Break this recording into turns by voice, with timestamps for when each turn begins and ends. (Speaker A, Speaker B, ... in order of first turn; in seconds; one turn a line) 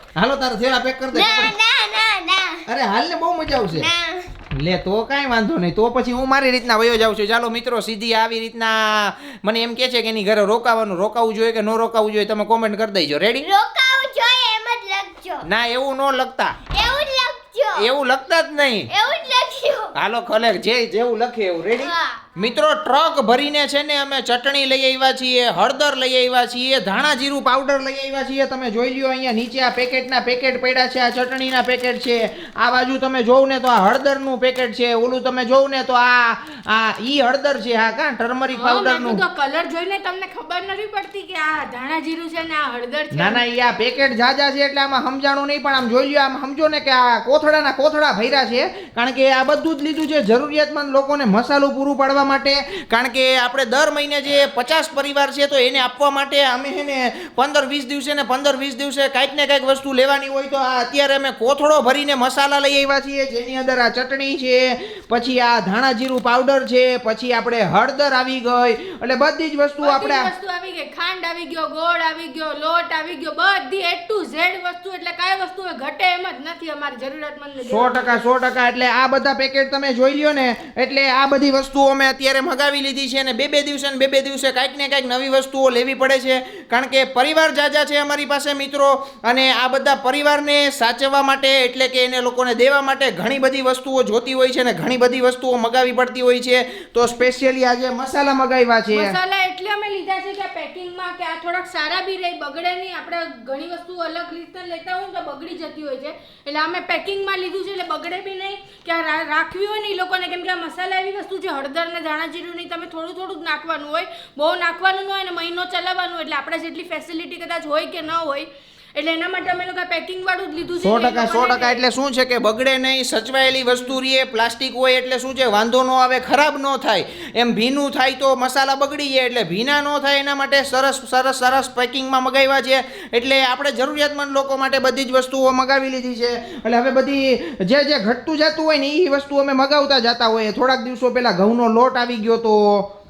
Speaker A: 0.1-1.5
Speaker B: 1.1-2.6
Speaker A: 2.7-3.9
Speaker B: 3.7-4.3
Speaker A: 4.5-13.5
Speaker B: 13.4-15.5
Speaker A: 15.4-16.6
Speaker B: 16.7-17.9
Speaker A: 17.8-18.9
Speaker B: 18.9-19.9
Speaker A: 19.9-39.2
Speaker B: 21.8-22.3
Speaker C: 38.5-43.4
Speaker A: 43.1-70.3
Speaker C: 69.8-78.3
Speaker A: 77.6-99.2
Speaker C: 98.9-121.8
Speaker A: 120.8-142.9